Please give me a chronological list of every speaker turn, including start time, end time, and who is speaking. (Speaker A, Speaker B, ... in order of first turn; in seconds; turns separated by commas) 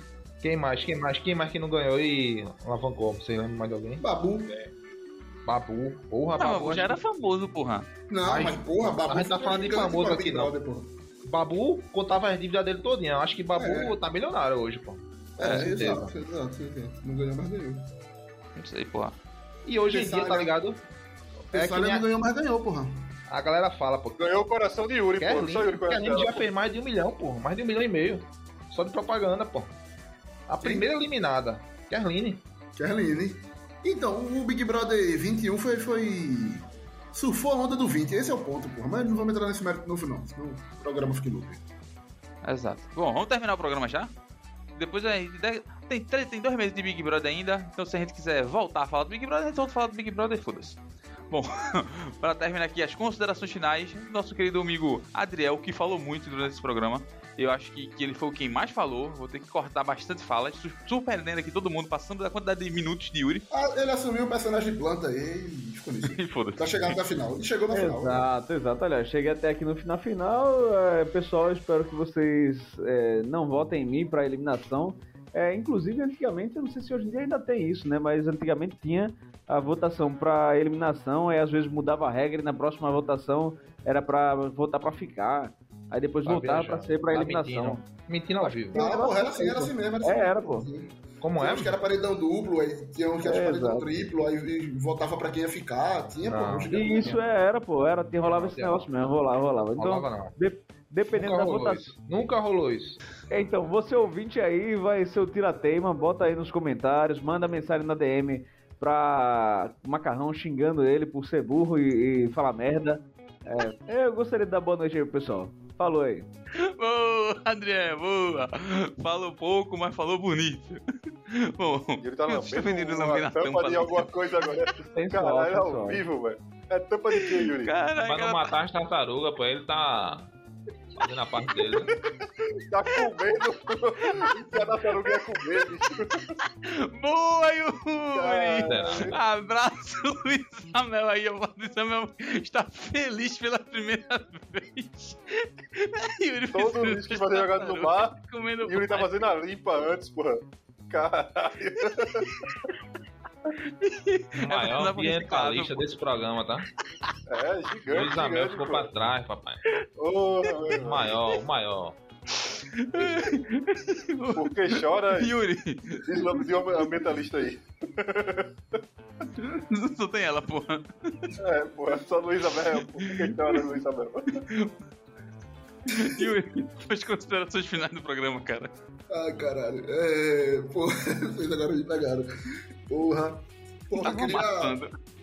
Speaker A: 0.4-4.0, Speaker B: 4.0-4.6, Speaker A: 5.4-7.0, Speaker C: 6.3-7.9, Speaker B: 8.1-10.9, Speaker A: 8.2-10.5, Speaker A: 11.2-16.1, Speaker B: 13.5-13.9, Speaker B: 15.4-17.9, Speaker C: 15.4-15.7, Speaker C: 18.6-19.1, Speaker A: 19.6-20.8, Speaker B: 19.9-20.6, Speaker A: 21.5-22.1, Speaker B: 21.5-23.2, Speaker A: 23.3-24.4, Speaker D: 24.2-26.5, Speaker A: 25.2-29.7, Speaker A: 30.5-32.4, Speaker B: 30.6-30.9, Speaker B: 32.8-41.6, Speaker C: 42.4-44.1, Speaker C: 44.7-50.8, Speaker C: 51.3-63.5, Speaker B: 63.5-68.2, Speaker C: 66.0-67.0, Speaker E: 67.7-87.8, Speaker A: 86.2-88.8, Speaker E: 88.4-90.7, Speaker B: 88.7-97.1, Speaker A: 91.2-91.8, Speaker E: 93.2-93.9, Speaker A: 96.2-97.2, Speaker E: 96.7-101.9, Speaker A: 98.2-98.8, Speaker A: 99.8-100.3, Speaker A: 101.1-103.0, Speaker E: 103.3-116.3, Speaker C: 116.6-124.6, Speaker D: 122.0-127.7, Speaker E: 124.8-126.0, Speaker C: 127.2-128.6, Speaker F: 128.0-130.3, Speaker F: 131.0-131.9, Speaker D: 131.6-136.4, Speaker C: 134.1-134.6, Speaker C: 136.4-149.3, Speaker D: 138.1-139.2, Speaker F: 138.6-139.2, Speaker D: 146.5-152.3, Speaker C: 152.1-152.6, Speaker C: 153.6-155.8, Speaker F: 154.4-156.7, Speaker D: 157.3-158.9, Speaker F: 157.9-159.6, Speaker D: 160.0-161.3, Speaker C: 160.4-160.7, Speaker F: 160.8-162.0, Speaker C: 162.3-167.1, Speaker D: 164.3-165.3, Speaker D: 166.0-168.8, Speaker C: 169.3-171.3, Speaker D: 171.4-174.3, Speaker C: 172.6-173.6, Speaker C: 174.3-174.7, Speaker C: 175.9-178.7, Speaker B: 179.1-184.8, Speaker C: 184.0-184.9